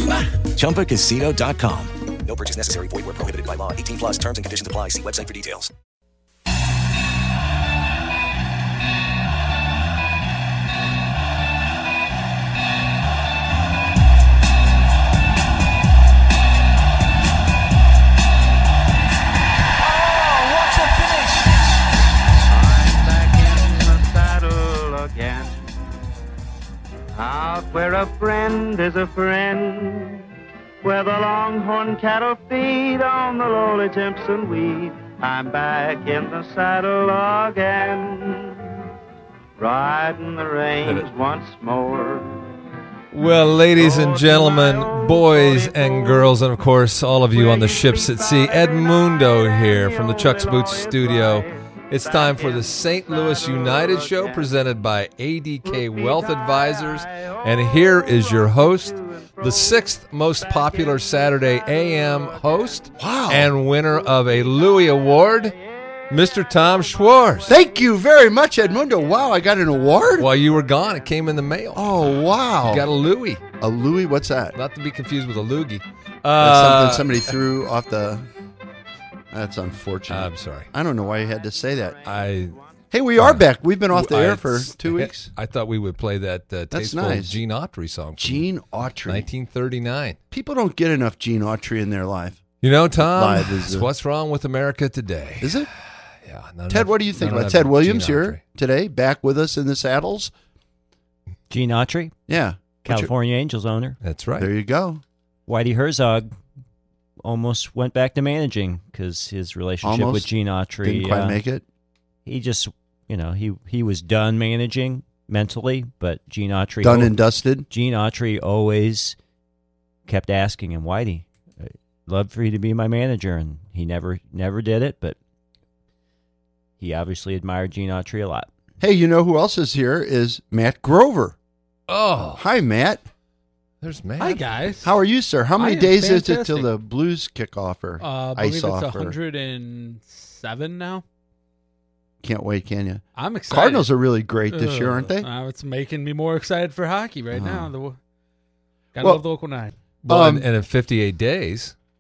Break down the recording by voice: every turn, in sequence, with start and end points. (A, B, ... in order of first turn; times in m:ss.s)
0:02.5-0:05.6 A
0:22.5-0:25.5 B
0:27.2-0:30.2 B
0:30.8-0:38.6 B
0:39.6-0:42.4 B
0:40.8-0:41.1 C
0:43.1-1:05.6 C
0:43.8-0:46.2 B
0:47.3-0:54.4 B
0:55.7-0:59.7 B
1:00.4-1:01.4 B
1:03.0-1:03.5 D
1:06.1-1:07.5 C
1:07.5-1:10.3 D
1:10.2-1:13.4 C
1:11.7-1:12.8 D
1:13.6-1:14.6 D
1:14.6-1:17.1 C
1:16.4-1:18.2 D
1:19.3-1:22.0 D
1:20.1-1:20.7 C
1:22.0-1:22.6 C
1:22.9-1:25.3 D
1:23.2-1:28.5 C
1:26.7-1:27.4 D
1:28.2-1:29.3 D
1:29.0-1:30.2 C
1:30.3-1:32.4 D
1:32.6-1:35.7 C
1:33.0-1:33.9 D
1:35.4-1:35.7 D
1:36.2-1:38.4 C
1:36.7-1:40.3 D
1:41.5-1:42.1 E
1:42.3-1:43.1 D
1:42.8-1:44.0 E
1:44.0-1:44.5 C
1:44.4-1:45.0 D
1:45.5-1:46.3 E
1:47.2-1:51.4 E
1:49.8-1:50.3 D
1:50.8-1:51.6 D
1:52.3-1:57.1 E
1:56.8-1:57.7 D
1:57.7-1:59.2 E
2:00.1-2:05.2 E
2:06.8-2:08.5 E
2:08.8-2:11.4 D
2:11.9-2:12.4 C
2:12.4-2:13.0 D
2:13.8-2:14.5 C
2:14.2-2:14.9 F
2:14.8-2:19.2 D
2:15.6-2:16.7 F
2:18.0-2:21.0 F
2:22.2-2:25.3 D
2:23.2-2:23.9 F
2:24.5-2:28.0 F
2:27.3-2:27.7 D
2:29.0-2:29.7 F
2:30.0-2:31.8 C
2:30.1-2:30.5 D